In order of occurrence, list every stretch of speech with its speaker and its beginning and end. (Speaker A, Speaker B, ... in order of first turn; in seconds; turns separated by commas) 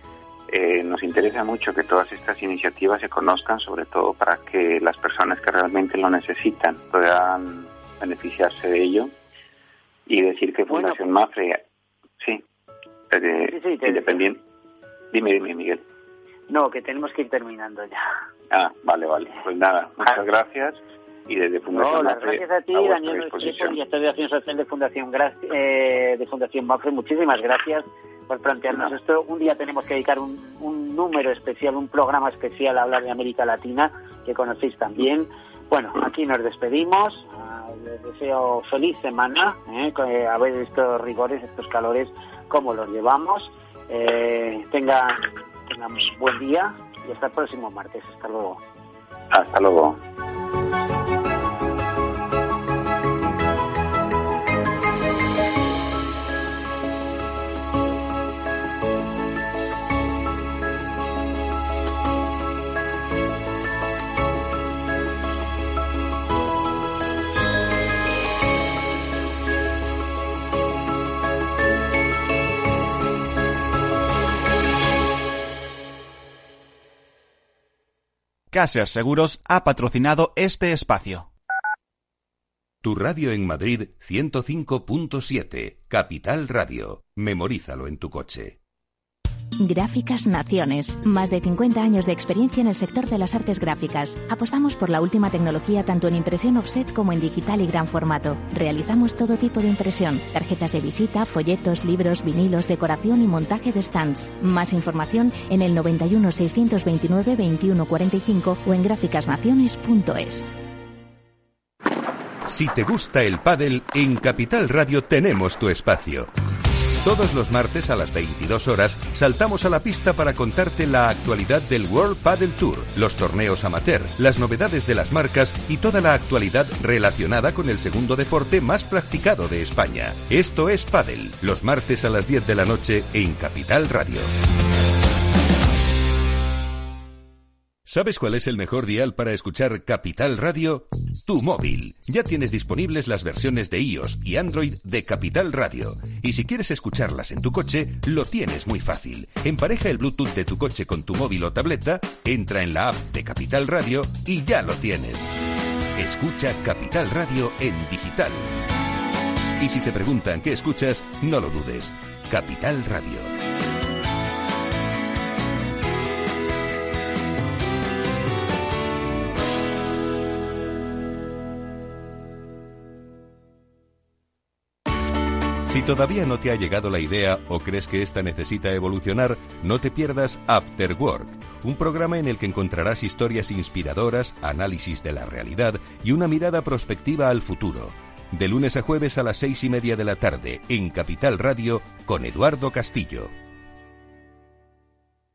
Speaker A: 0.5-9.1, Speaker A: 10.1-11.6, Speaker B: 10.7-11.0, Speaker A: 12.2-12.4, Speaker A: 13.1-14.4, Speaker B: 13.5-14.2, Speaker A: 15.1-15.8, Speaker B: 16.5-18.0, Speaker A: 18.5-23.8, Speaker B: 21.7-48.6, Speaker A: 49.3-50.0, Speaker C: 78.5-81.3, Speaker D: 82.8-88.6, Speaker E: 89.6-110.5, Speaker D: 112.5-116.3, Speaker D: 117.0-134.3, Speaker D: 137.8-155.3, Speaker D: 155.9-158.5, Speaker D: 159.6-163.3, Speaker D: 175.7-193.3